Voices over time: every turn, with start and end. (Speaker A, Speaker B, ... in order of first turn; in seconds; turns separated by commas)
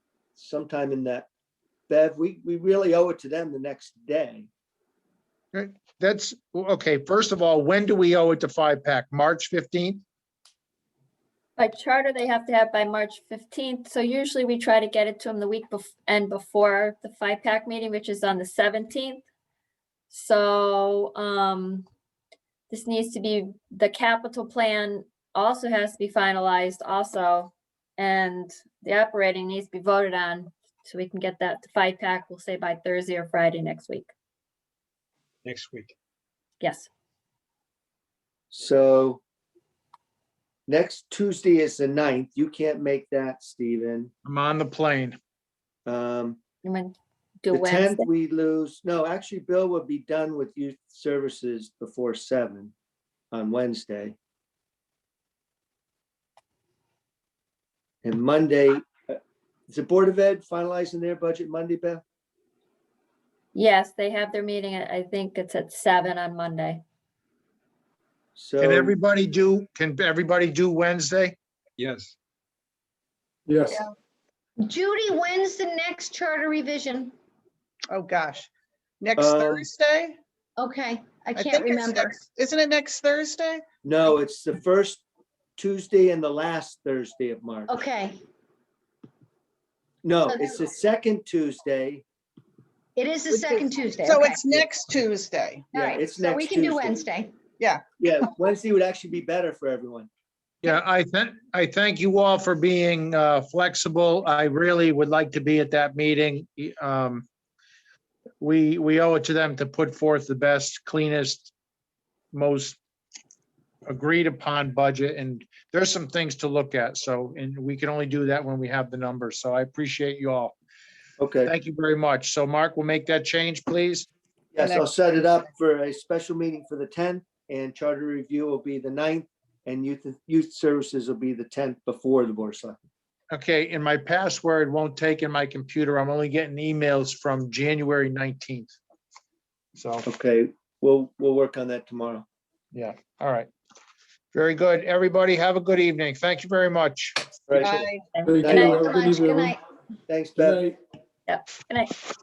Speaker A: 0.4-1.3, Speaker A: 1.9-4.5, Speaker B: 5.5-10.0, Speaker C: 11.6-19.2, Speaker C: 20.1-21.9, Speaker C: 22.7-34.1, Speaker B: 35.5-35.9, Speaker C: 36.6-36.9, Speaker A: 38.5-39.2, Speaker A: 40.7-44.1, Speaker B: 44.2-45.2, Speaker A: 45.9-46.4, Speaker C: 46.6-48.0, Speaker A: 47.5-52.7, Speaker A: 53.3-54.2, Speaker A: 58.0-62.0, Speaker C: 63.5-66.8, Speaker A: 68.4-69.0, Speaker B: 68.6-71.4, Speaker D: 73.5-73.8, Speaker E: 74.6-77.2, Speaker F: 77.9-78.5, Speaker F: 79.0-80.2, Speaker A: 79.2-79.7, Speaker E: 80.6-82.2, Speaker F: 81.3-83.6, Speaker A: 83.8-85.0, Speaker A: 85.6-87.8, Speaker E: 87.7-88.2, Speaker A: 90.0-92.0, Speaker E: 90.3-90.7, Speaker E: 93.0-94.5, Speaker F: 93.3-95.7, Speaker E: 95.7-97.4, Speaker A: 95.8-97.1, Speaker A: 98.0-100.1, Speaker B: 100.6-107.3, Speaker B: 108.4-111.5, Speaker B: 112.3-112.8, Speaker B: 113.9-120.5, Speaker A: 121.2-121.5, Speaker B: 121.5-124.1, Speaker A: 124.5-132.8, Speaker F: 124.6-124.9, Speaker B: 133.3-138.7, Speaker B: 139.8-140.0, Speaker A: 140.1-142.2, Speaker B: 142.7-143.5, Speaker B: 144.3-147.8, Speaker A: 147.5-149.0, Speaker F: 147.6-148.1, Speaker C: 148.1-148.8, Speaker D: 148.2-149.5, Speaker E: 148.4-149.6, Speaker A: 150.1-150.7, Speaker D: 150.4-150.8, Speaker C: 151.3-152.0